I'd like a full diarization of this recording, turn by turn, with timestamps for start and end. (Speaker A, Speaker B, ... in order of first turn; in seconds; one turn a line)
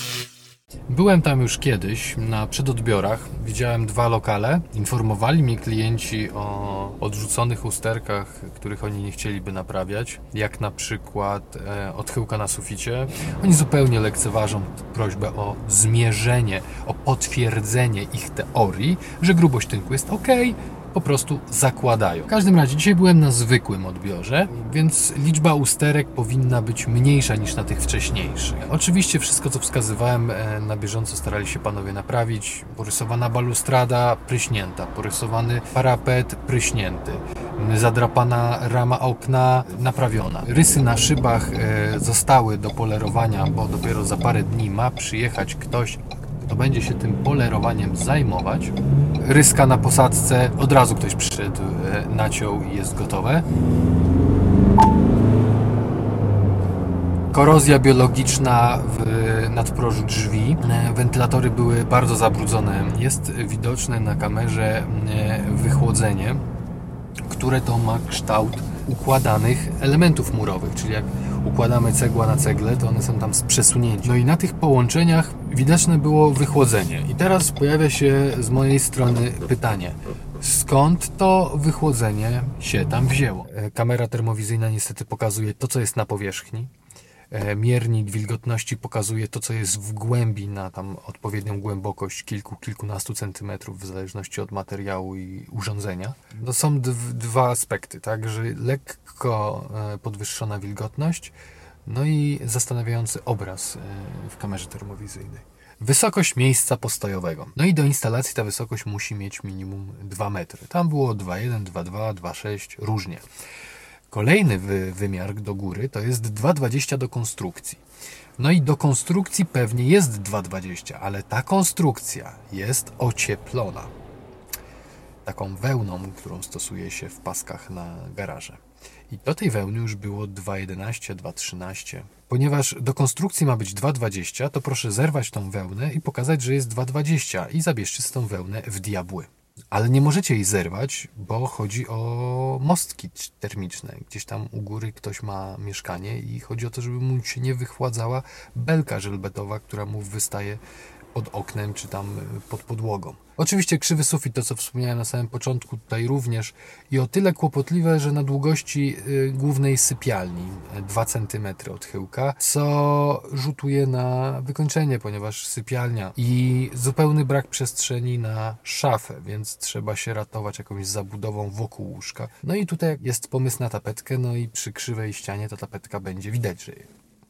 Speaker A: 0.9-53.4
Speaker A: 57.3-66.4
Speaker A: 67.3-86.7
Speaker A: 87.3-101.3
Speaker A: 101.8-113.2
Speaker A: 114.1-117.8
Speaker A: 118.4-123.9
Speaker A: 125.2-150.6
Speaker A: 151.1-176.9